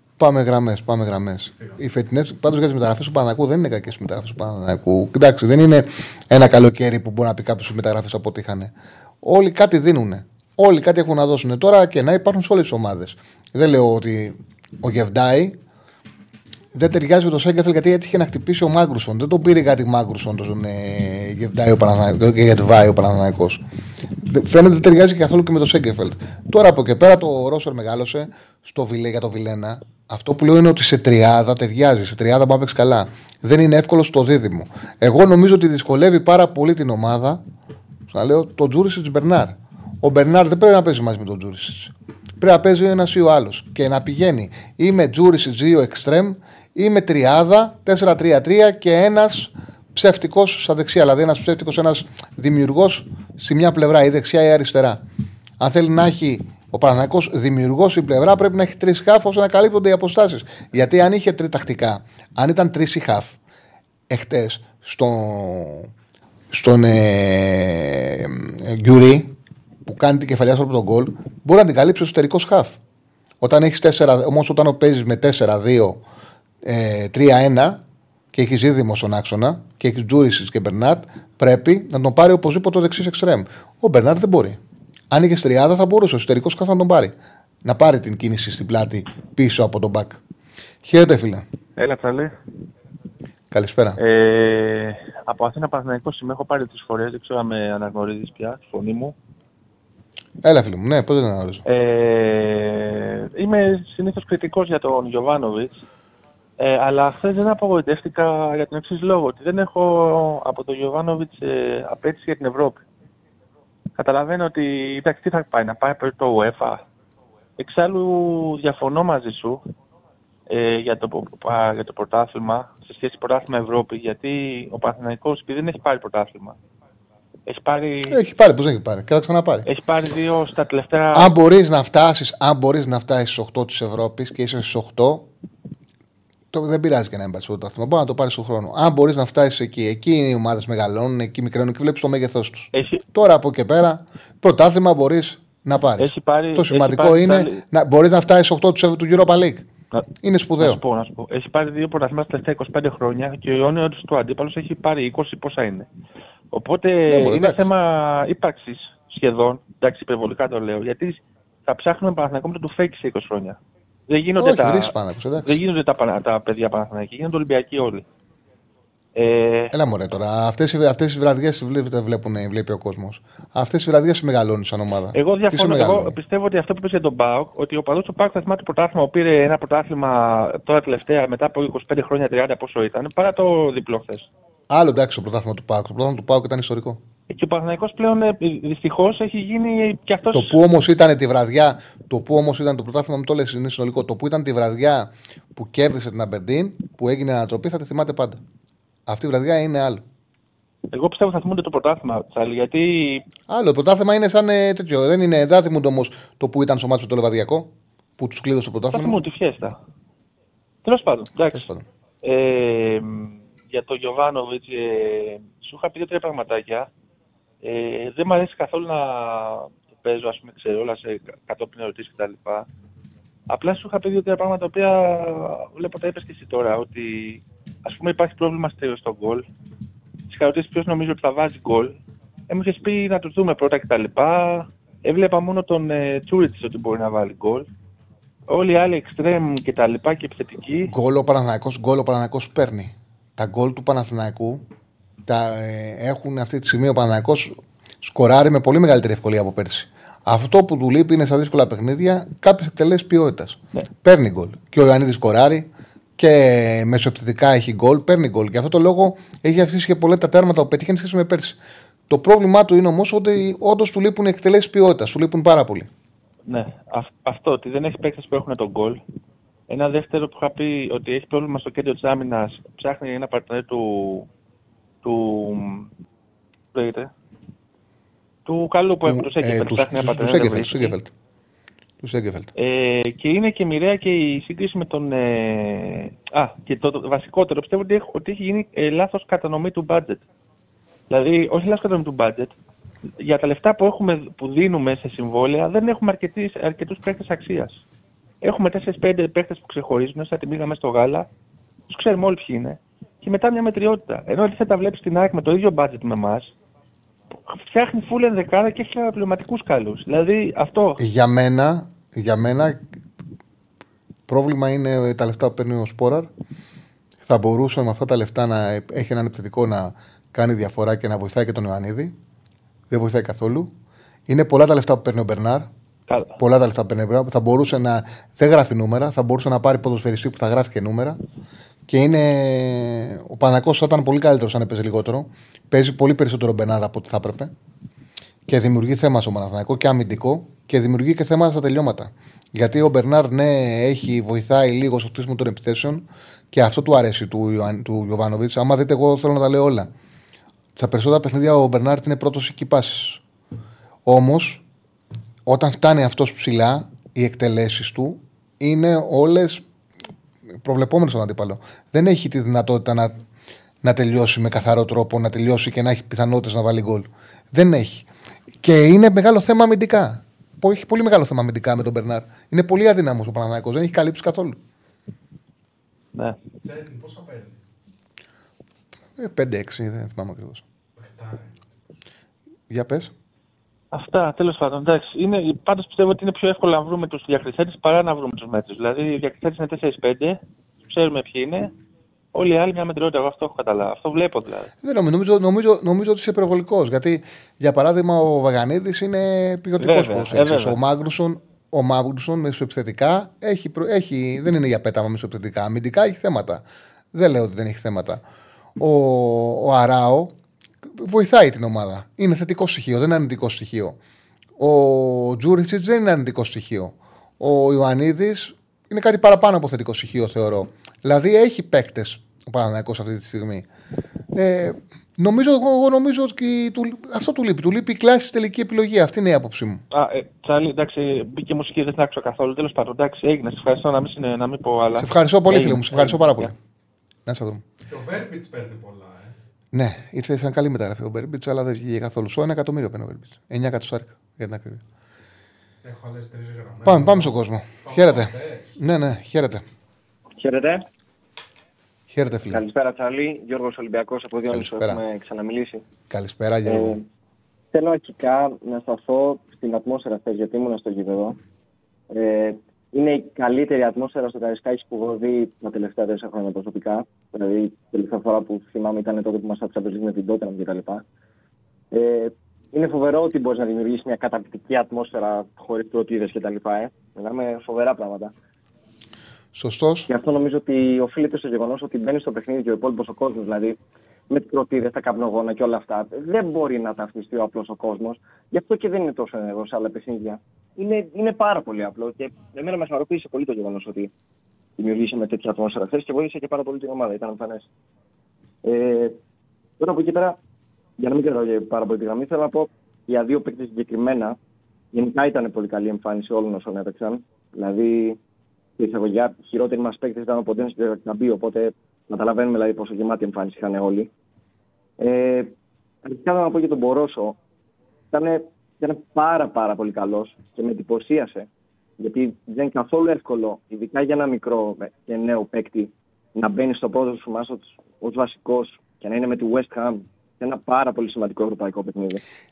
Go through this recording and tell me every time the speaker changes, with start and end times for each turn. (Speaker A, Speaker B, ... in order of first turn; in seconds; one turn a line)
Speaker A: 0.2-8.7
Speaker A: 9.2-15.6
Speaker A: 16.7-23.6
Speaker A: 24.2-37.4
Speaker A: 38.1-55.0
Speaker A: 55.6-63.4
Speaker A: 64.1-65.9
Speaker A: 66.5-69.3
Speaker A: 69.9-72.8
Speaker A: 73.4-76.0
Speaker A: 76.6-77.8
Speaker A: 78.3-84.6
Speaker A: 85.1-90.2
Speaker A: 90.8-91.4
Speaker B: 91.8-92.4
Speaker A: 93.5-94.0
Speaker B: 94.0-99.2
Speaker A: 100.4-101.6
Speaker B: 101.6-105.8
Speaker B: 106.6-112.8
Speaker B: 114.0-116.8
Speaker B: 117.6-119.6
Speaker B: 120.5-126.6
Speaker B: 127.5-128.2
Speaker A: 128.1-129.7
Speaker B: 129.6-131.3
Speaker A: 131.1-135.3
Speaker A: 136.5-149.7
Speaker B: 142.7-143.0
Speaker B: 146.0-147.6
Speaker B: 149.9-155.9
Speaker A: 150.2-150.8
Speaker B: 156.5-168.1
Speaker A: 157.1-157.6
Speaker A: 164.4-165.6
Speaker B: 169.1-169.7
Speaker A: 169.7-176.2
Speaker B: 175.1-184.3
Speaker A: 184.7-187.0
Speaker B: 187.3-190.6
Speaker A: 190.3-198.4
Speaker A: 199.1-200.0
Speaker B: 200.9-203.2
Speaker A: 203.5-209.2
Speaker B: 208.9-209.8
Speaker B: 210.8-211.7
Speaker A: 211.5-211.8
Speaker B: 212.2-216.9
Speaker B: 217.6-222.7
Speaker B: 223.5-229.5
Speaker B: 230.3-237.7
Speaker B: 238.5-240.9
Speaker A: 240.8-244.6
Speaker A: 245.3-261.6
Speaker A: 262.1-265.9
Speaker B: 266.4-269.0
Speaker B: 269.7-274.3
Speaker B: 275.0-275.9
Speaker B: 276.7-277.1
Speaker B: 278.4-280.9
Speaker A: 279.1-281.1
Speaker A: 282.0-282.5
Speaker B: 282.6-290.2
Speaker B: 291.1-292.6
Speaker B: 293.2-297.8
Speaker B: 298.4-301.3
Speaker B: 301.9-306.5
Speaker B: 307.5-311.0
Speaker A: 311.0-312.8
Speaker A: 314.3-316.3
Speaker A: 317.2-322.1
Speaker A: 322.9-323.7
Speaker A: 324.3-325.7
Speaker B: 326.1-326.4
Speaker A: 326.4-331.2
Speaker A: 331.9-337.5
Speaker A: 338.5-349.9
Speaker A: 350.8-353.2
Speaker A: 354.1-354.6
Speaker A: 355.4-359.6
Speaker A: 360.6-363.1
Speaker A: 363.8-368.1
Speaker A: 368.6-374.6
Speaker C: 376.6-377.6
Speaker A: 379.2-380.6
Speaker C: 381.0-381.6
Speaker A: 382.7-383.1
Speaker B: 383.9-391.7
Speaker B: 392.3-394.7
Speaker A: 394.8-408.2
Speaker B: 399.8-400.8
Speaker A: 408.8-410.3
Speaker A: 411.0-414.0
Speaker A: 414.6-423.6
Speaker A: 424.3-429.8
Speaker B: 429.9-436.5
Speaker A: 434.9-436.5
Speaker A: 437.2-437.6
Speaker C: 437.9-439.3
Speaker A: 439.7-444.8
Speaker C: 445.8-448.8
Speaker A: 446.8-449.6
Speaker D: 450.4-450.9
Speaker A: 452.1-452.6
Speaker D: 452.4-455.9
Speaker A: 454.5-455.0
Speaker A: 456.1-457.0
Speaker D: 456.6-457.0
Speaker D: 457.7-461.4
Speaker D: 462.1-471.0
Speaker D: 471.9-478.3
Speaker A: 479.5-480.1
Speaker D: 480.1-483.8
Speaker D: 484.3-494.1
Speaker D: 494.8-497.7
Speaker D: 498.6-499.2
Speaker D: 499.8-500.4
Speaker D: 501.0-504.4
Speaker D: 504.9-508.2
Speaker D: 508.8-514.1
Speaker D: 515.0-517.4
Speaker D: 518.1-521.5
Speaker D: 522.0-532.2